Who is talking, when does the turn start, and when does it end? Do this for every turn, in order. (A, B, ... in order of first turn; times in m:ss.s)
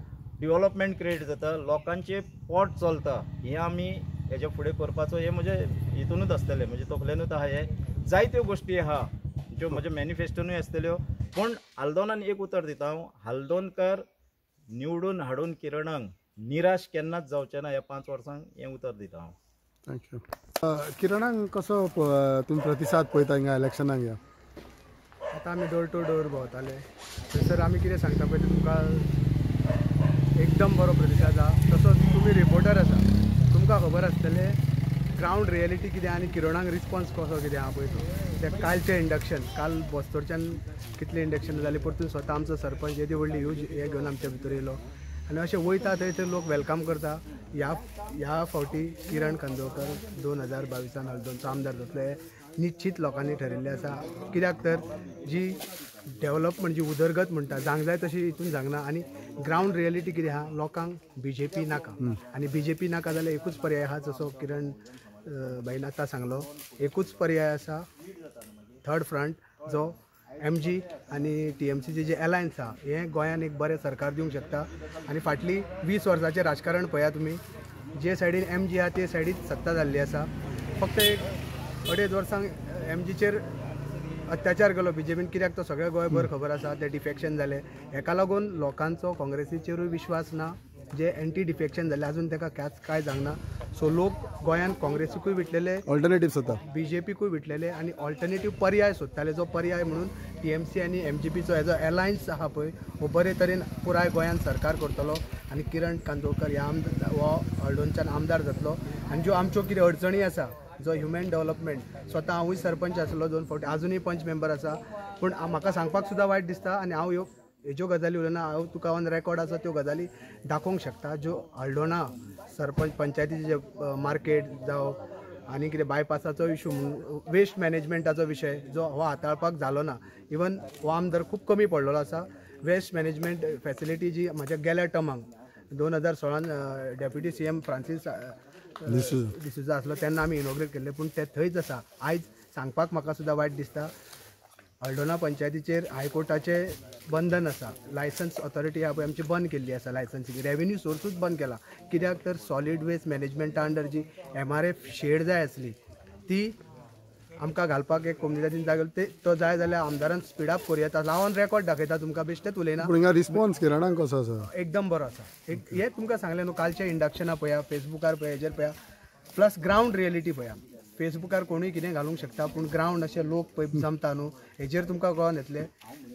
0:00.4-0:14.0 A
0:14.7-0:19.4 A
0:19.8-0:24.2 B
0:25.3-0:29.1 C
0:30.4-0:34.6 C
0:35.1-0:55.6 C
0:56.2-1:07.8 C
1:08.8-1:17.4 C
1:17.9-1:21.3 C
1:21.8-1:23.5 C
1:24.3-1:35.8 C
1:35.8-1:36.6 B
1:36.6-2:05.0 C
2:05.5-2:23.9 C
2:18.9-2:19.3 B
2:24.8-2:35.8 C
2:36.3-2:36.6 C
2:37.4-2:42.9 C
2:42.8-2:44.5 B
2:44.5-2:48.7 C
2:49.3-2:55.7 C